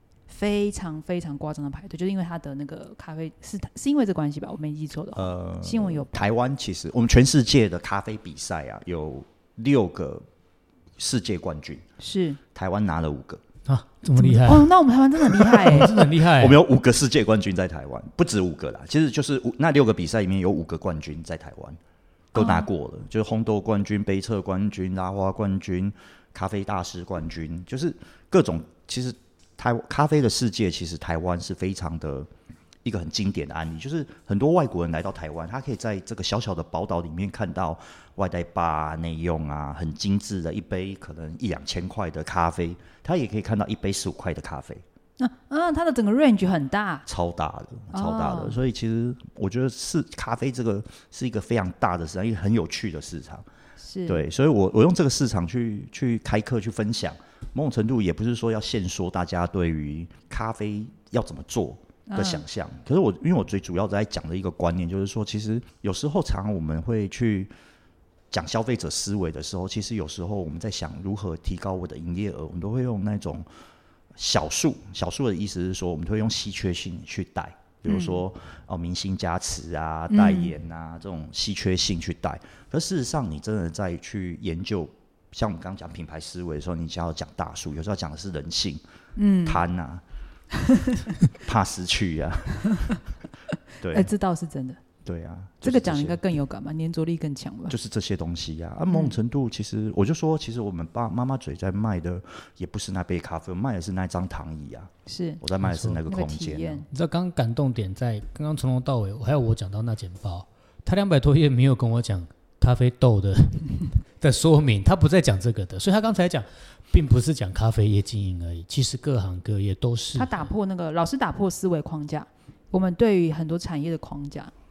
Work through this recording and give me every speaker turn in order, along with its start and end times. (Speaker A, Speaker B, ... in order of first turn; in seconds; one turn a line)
Speaker A: 0.3-6.2
Speaker B: 5.1-10.3
Speaker B: 11.0-11.8
Speaker A: 12.0-12.4
Speaker B: 12.5-13.4
Speaker C: 13.7-14.7
Speaker A: 14.2-16.0
Speaker C: 15.5-16.6
Speaker B: 15.8-21.8
Speaker A: 22.4-22.7
Speaker B: 22.4-32.3
Speaker B: 32.9-44.8
Speaker A: 45.2-47.1
Speaker B: 47.1-53.5
Speaker A: 47.9-48.6
Speaker A: 53.8-54.2
Speaker B: 54.1-67.5
Speaker A: 62.1-62.4
Speaker B: 68.3-73.5
Speaker B: 74.2-88.8
Speaker A: 77.9-78.2
Speaker A: 80.1-80.5
Speaker A: 89.2-89.6
Speaker B: 89.5-90.0
Speaker A: 90.5-91.1
Speaker B: 91.3-93.0
Speaker B: 93.8-94.1
Speaker A: 93.9-94.8
Speaker B: 95.0-96.2
Speaker A: 95.6-97.8
Speaker B: 97.7-104.9
Speaker A: 98.9-99.2
Speaker A: 105.1-105.4
Speaker B: 105.4-106.8
Speaker C: 105.6-106.0
Speaker A: 106.1-106.9
Speaker C: 106.9-120.5
Speaker A: 120.2-124.5